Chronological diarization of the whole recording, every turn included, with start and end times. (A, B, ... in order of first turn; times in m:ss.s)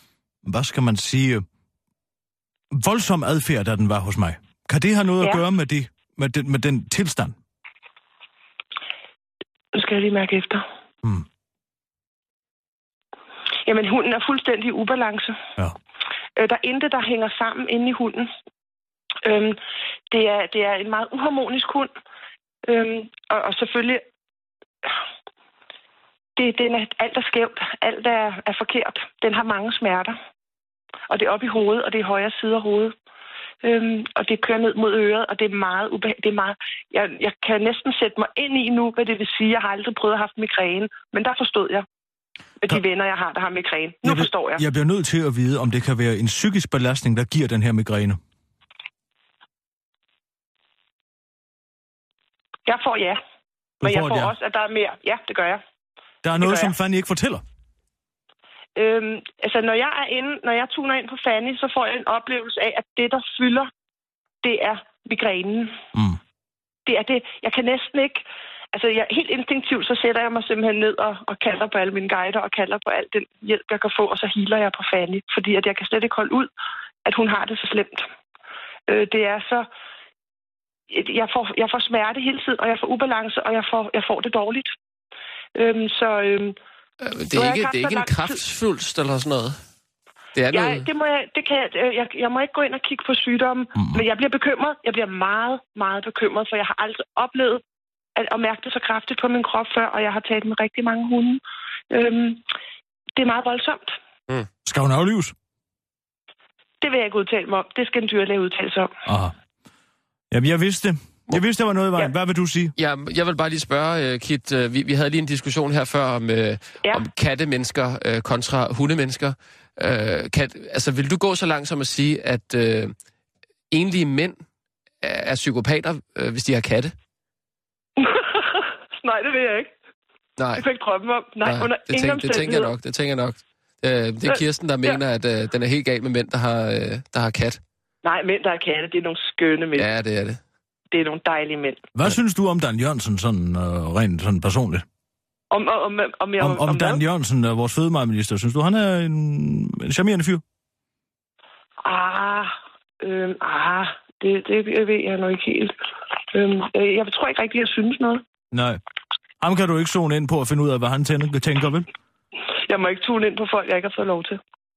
0:00.4-0:01.4 A
0:02.7-0:07.4 A
0:09.7-0:10.6 B
0:13.7-0:15.4 B
0:16.4-0:18.3 B
0:19.2-0:19.6 B
0:20.1-0:21.9 B
0:22.6-0:24.0 B
0:26.4-0:30.2 B
0:31.1-0:32.9 B
0:33.6-0:41.9 B
0:42.6-0:44.6 B
0:44.0-0:48.2 A
0:52.7-0:53.2 B
0:53.8-0:54.3 A
0:53.8-0:55.6 B
0:56.2-0:57.4 A
0:56.3-0:56.7 B
0:58.8-1:03.7 B
1:04.4-1:05.8 B
1:06.9-1:16.5 B
1:17.0-1:18.1 B
1:18.9-1:19.7 B
1:20.9-1:24.7 B
1:25.6-1:26.6 B
1:27.0-1:29.6 C
1:27.3-1:28.4 B
1:30.4-1:30.9 C
1:30.5-1:37.6 B
1:33.8-1:34.0 A
1:38.2-1:42.4 B
1:43.2-1:44.0 B
1:44.6-1:45.4 A
1:46.8-1:48.9 B
1:49.1-1:49.4 A
1:50.3-1:52.7 A
1:52.8-2:03.0 C
2:03.7-2:04.4 C
2:05.0-2:06.9 C
2:08.0-2:09.7 B
2:10.4-2:10.6 C
2:10.6-2:12.7 B
2:11.4-2:17.6 C
2:14.3-2:15.0 B
2:18.0-2:19.9 B
2:19.8-2:20.4 C
2:20.9-2:21.9 B
2:22.0-2:24.9 A
2:25.5-2:27.0 B
2:26.4-2:30.4 A
2:31.8-2:35.7 B
2:36.3-2:38.2 B
2:38.5-2:38.8 A
2:39.4-2:41.9 A
2:42.7-2:44.4 B